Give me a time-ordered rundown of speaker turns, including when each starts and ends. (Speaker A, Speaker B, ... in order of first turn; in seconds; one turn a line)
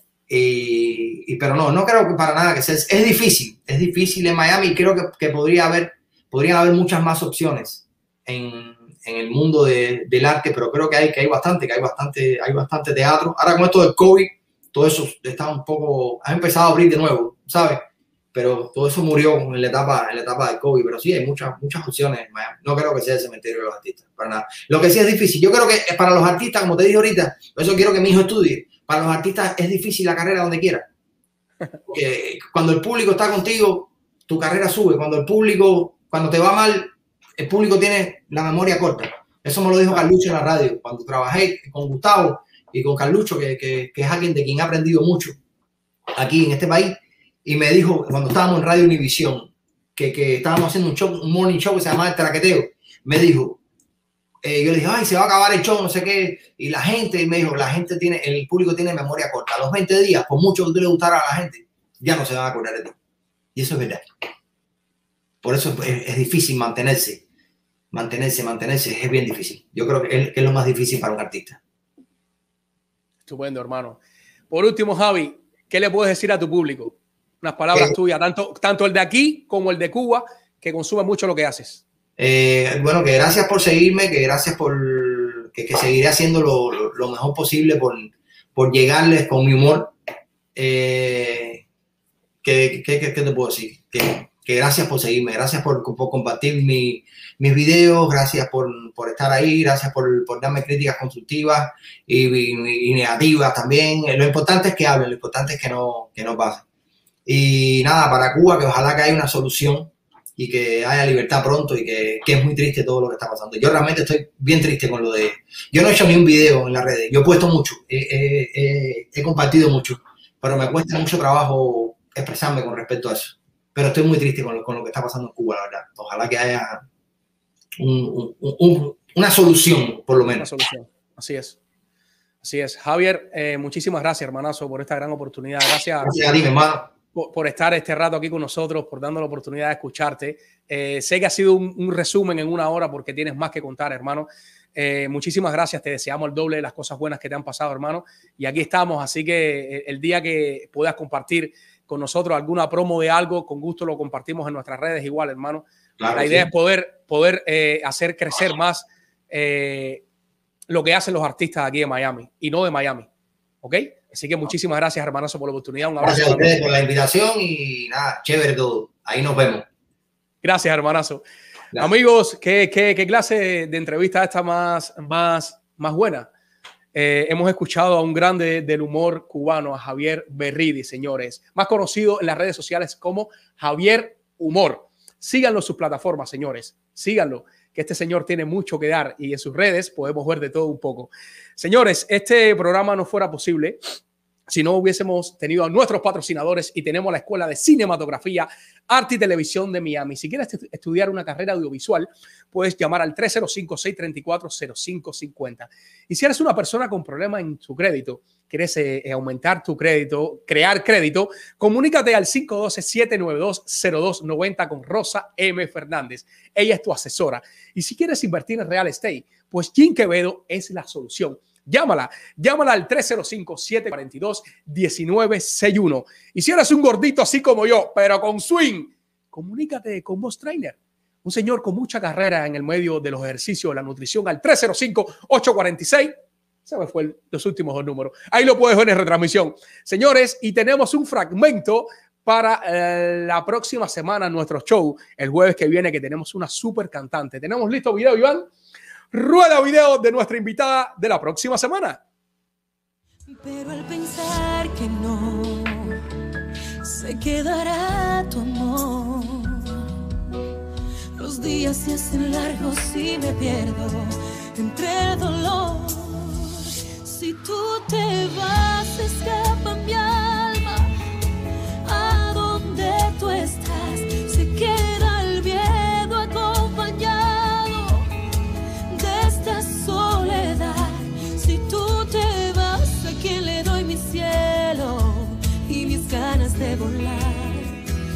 Speaker A: 0.3-17.8
Speaker A: 18.3-30.9
Speaker A: 31.9-45.4
Speaker A: 46.1-53.6
Speaker A: 54.4-62.9
Speaker A: 63.5-64.0
Speaker A: 65.4-67.2
Speaker A: 67.9-71.6
Speaker B: 73.3-74.0
Speaker B: 74.5-81.8
Speaker A: 82.2-89.9
Speaker A: 90.5-91.6
Speaker A: 92.4-106.6
Speaker A: 107.2-126.8
Speaker A: 127.8-130.5
Speaker B: 130.3-131.6
Speaker B: 132.4-136.3
Speaker A: 136.0-136.9
Speaker B: 137.1-160.0
Speaker A: 156.0-156.5
Speaker B: 160.7-163.1
Speaker B: 163.6-166.6
Speaker A: 166.0-169.7
Speaker B: 170.4-171.2
Speaker B: 171.8-176.3
Speaker B: 176.9-193.8
Speaker B: 194.5-236.1
Speaker B: 236.7-248.5
Speaker B: 249.1-252.0
Speaker C: 253.3-256.0
Speaker C: 256.8-259.8
Speaker C: 261.1-270.9
Speaker C: 271.8-278.1
Speaker C: 278.9-287.8